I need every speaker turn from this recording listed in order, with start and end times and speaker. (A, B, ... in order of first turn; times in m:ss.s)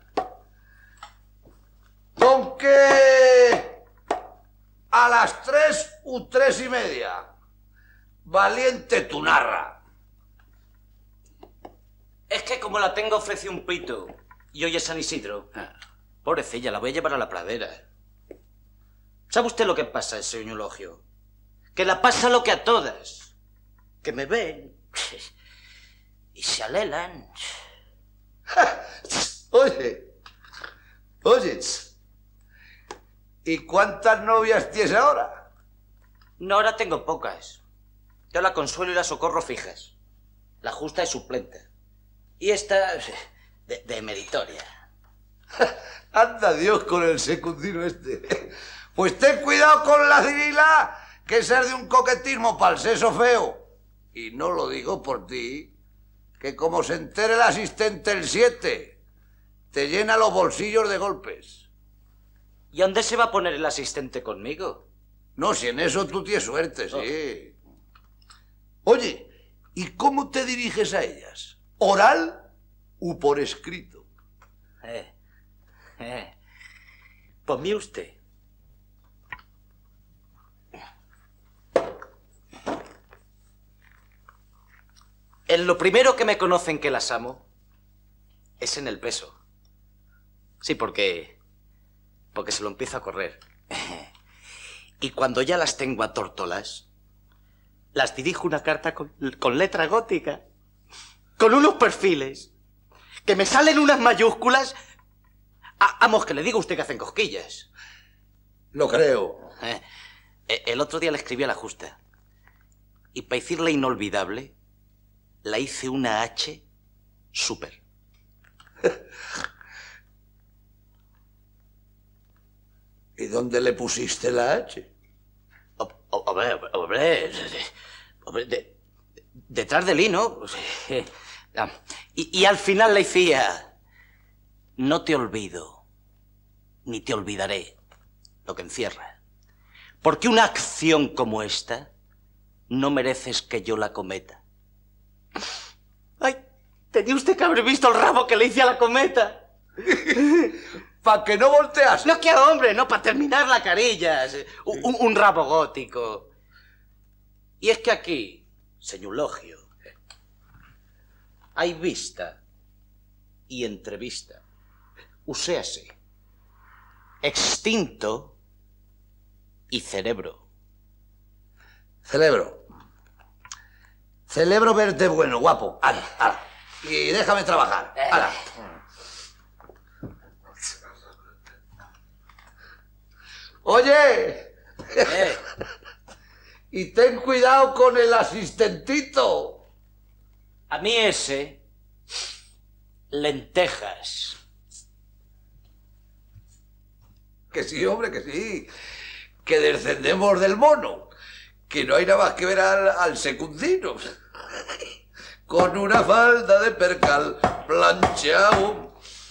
0:02.2-0:03.8 A
0:04.9-0:07.3 A
0:08.3-0:09.8 A
0:12.3-0:15.7 B
0:16.2-0:17.8 B
0:19.3-0:21.0 B
0:21.8-0:23.3 B
0:24.0-0:24.8 B
0:26.4-0:27.4 B
0:28.5-0:30.0 A
0:31.2-0:31.9 A
0:33.4-0:35.4 A
0:36.4-0:37.6 B
0:38.3-0:39.9 B
0:40.6-0:41.6 B
0:42.4-0:43.1 B
0:43.7-0:44.7 B
0:45.6-0:53.6 A
0:54.1-0:55.7 A
0:56.4-0:59.0 A
0:59.7-1:01.6 A
1:02.7-1:04.8 B
1:05.4-1:07.6 A
1:08.9-1:12.4 A
1:13.0-1:14.0 A
1:14.8-1:15.1 B
1:16.0-1:16.3 B
1:17.5-1:18.2 B
1:25.5-1:27.4 B
1:28.6-1:29.4 B
1:30.6-1:31.4 B
1:32.3-1:34.0 B
1:35.0-1:36.8 B
1:38.0-1:40.4 B
1:41.4-1:42.5 B
1:43.3-1:44.8 B
1:45.8-1:47.7 B
1:48.7-1:49.5 A
1:50.5-1:52.0 B
1:53.1-1:54.5 B
1:55.4-1:56.6 B
1:57.3-1:57.8 B
2:03.2-2:04.9 A
2:05.8-2:07.7 B
2:08.3-2:08.7 B
2:09.5-2:13.7 B
2:14.8-2:15.8 B
2:16.9-2:17.8 B
2:18.5-2:19.1 B
2:20.0-2:21.9 B
2:22.7-2:24.4 B
2:26.9-2:29.4 B
2:31.0-2:32.1 A
2:32.0-2:36.3 B
2:37.6-2:39.7 B
2:41.6-2:42.4 B
2:43.5-2:44.4 B
2:45.3-2:45.9 B
2:47.2-2:48.3 B
2:49.7-2:50.4 B
2:52.1-2:52.6 A
2:54.3-2:58.4 A
3:03.6-3:05.4 A
3:05.1-3:05.4 B
3:06.7-3:09.6 A
3:10.7-3:11.6 B
3:13.1-3:14.4 B
3:17.5-3:18.7 A
3:19.4-3:21.1 A
3:21.7-3:24.1 A
3:25.5-3:28.9 A